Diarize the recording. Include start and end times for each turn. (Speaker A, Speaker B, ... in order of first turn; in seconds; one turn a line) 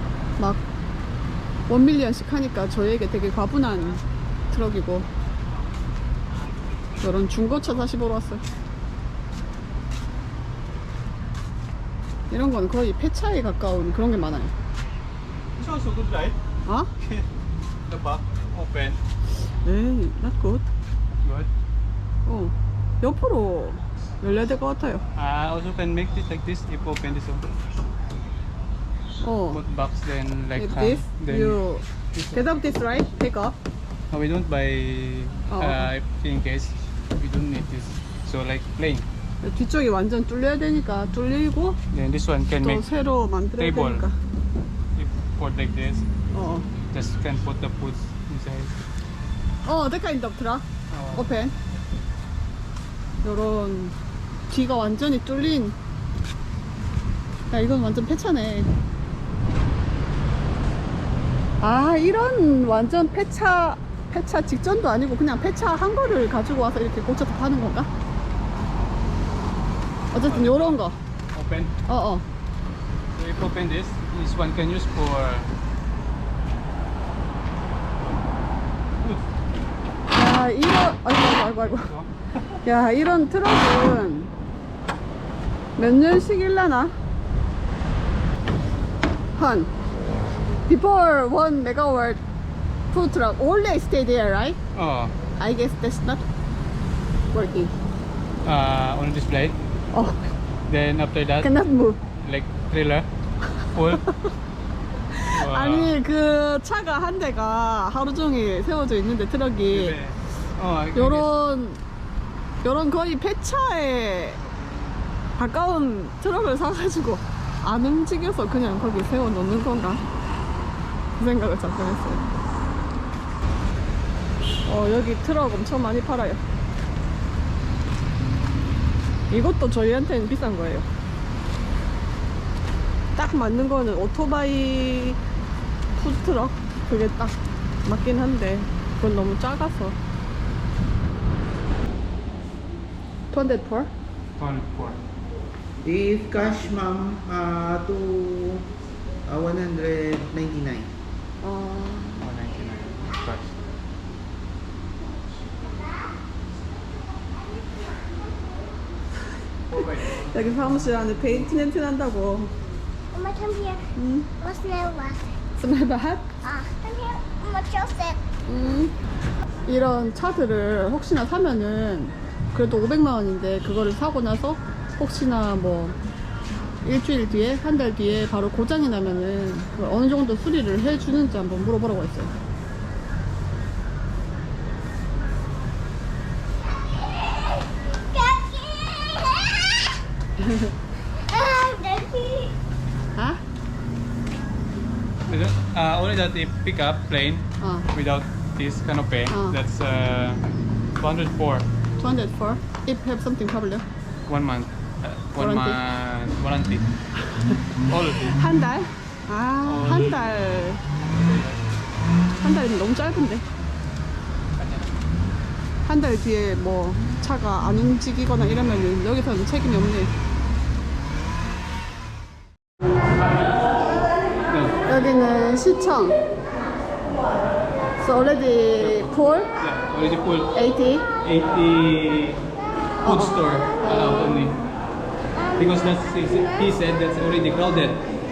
Speaker A: 0.4-0.6
Speaker A: 1.7-5.1
Speaker A: 7.0-8.4
Speaker A: 12.3-14.5
Speaker B: 15.6-16.4
Speaker A: 16.6-16.9
Speaker B: 17.0-17.3
Speaker B: 17.9-19.0
Speaker A: 19.6-20.7
Speaker B: 21.2-21.5
Speaker A: 22.3-25.0
Speaker B: 25.1-27.4
Speaker A: 29.2-29.6
Speaker B: 29.5-31.6
Speaker A: 30.6-33.6
Speaker B: 32.1-32.4
Speaker B: 34.1-39.1
Speaker A: 35.5-35.9
Speaker A: 39.4-41.8
Speaker B: 41.9-42.9
Speaker A: 42.6-44.2
Speaker B: 43.6-44.1
Speaker B: 45.0-46.1
Speaker A: 46.3-46.7
Speaker B: 46.9-48.8
Speaker A: 49.6-51.5
Speaker B: 50.9-51.3
Speaker A: 53.2-54.0
Speaker A: 54.5-55.8
Speaker A: 57.5-58.7
Speaker A: 61.6-67.9
Speaker A: 70.1-71.0
Speaker B: 70.1-70.8
Speaker B: 71.3-71.7
Speaker A: 71.9-72.3
Speaker B: 73.1-75.5
Speaker A: 80.1-81.9
Speaker B: 81.8-82.1
Speaker A: 82.6-84.3
Speaker A: 85.8-86.9
Speaker A: 89.3-89.7
Speaker A: 90.7-92.2
Speaker A: 92.9-94.6
Speaker B: 94.7-95.2
Speaker A: 95.4-96.3
Speaker A: 97.3-97.7
Speaker B: 98.4-99.6
Speaker A: 99.9-100.3
Speaker B: 100.7-101.6
Speaker A: 101.4-102.0
Speaker B: 102.1-103.1
Speaker B: 103.7-104.1
Speaker A: 105.1-110.0
Speaker B: 105.3-106.0
Speaker B: 109.7-111.4
Speaker A: 110.9-111.8
Speaker A: 112.6-114.4
Speaker A: 115.4-120.0
Speaker A: 121.2-122.2
Speaker A: 124.7-126.4
Speaker A: 129.3-130.9
Speaker A: 133.2-135.2
Speaker A: 135.9-140.0
Speaker A: 143.3-143.9
Speaker B: 144.4-145.0
Speaker C: 145.8-148.7
Speaker C: 149.2-150.9
Speaker A: 151.4-152.3
Speaker B: 152.2-153.6
Speaker D: 157.7-158.6
Speaker B: 159.7-160.7
Speaker A: 160.1-162.5
Speaker D: 163.1-163.8
Speaker A: 163.9-164.3
Speaker D: 164.4-165.2
Speaker A: 165.6-166.3
Speaker D: 166.4-168.2
Speaker A: 168.5-168.9
Speaker A: 169.7-176.0
Speaker A: 176.8-182.3
Speaker D: 187.5-190.0
Speaker D: 191.1-192.6
Speaker A: 193.2-193.4
Speaker B: 195.3-201.7
Speaker A: 197.6-197.9
Speaker A: 199.3-199.6
Speaker A: 202.0-203.8
Speaker B: 204.3-206.9
Speaker A: 205.4-205.8
Speaker B: 207.9-208.4
Speaker A: 208.3-210.8
Speaker B: 209.6-211.8
Speaker A: 212.4-213.4
Speaker B: 214.6-215.0
Speaker A: 215.8-220.1
Speaker B: 224.5-224.8
Speaker A: 224.9-226.2
Speaker A: 228.0-229.5
Speaker B: 229.6-230.5
Speaker A: 230.5-231.1
Speaker B: 231.2-232.5
Speaker B: 233.0-234.6
Speaker A: 233.0-234.6
Speaker B: 235.5-238.1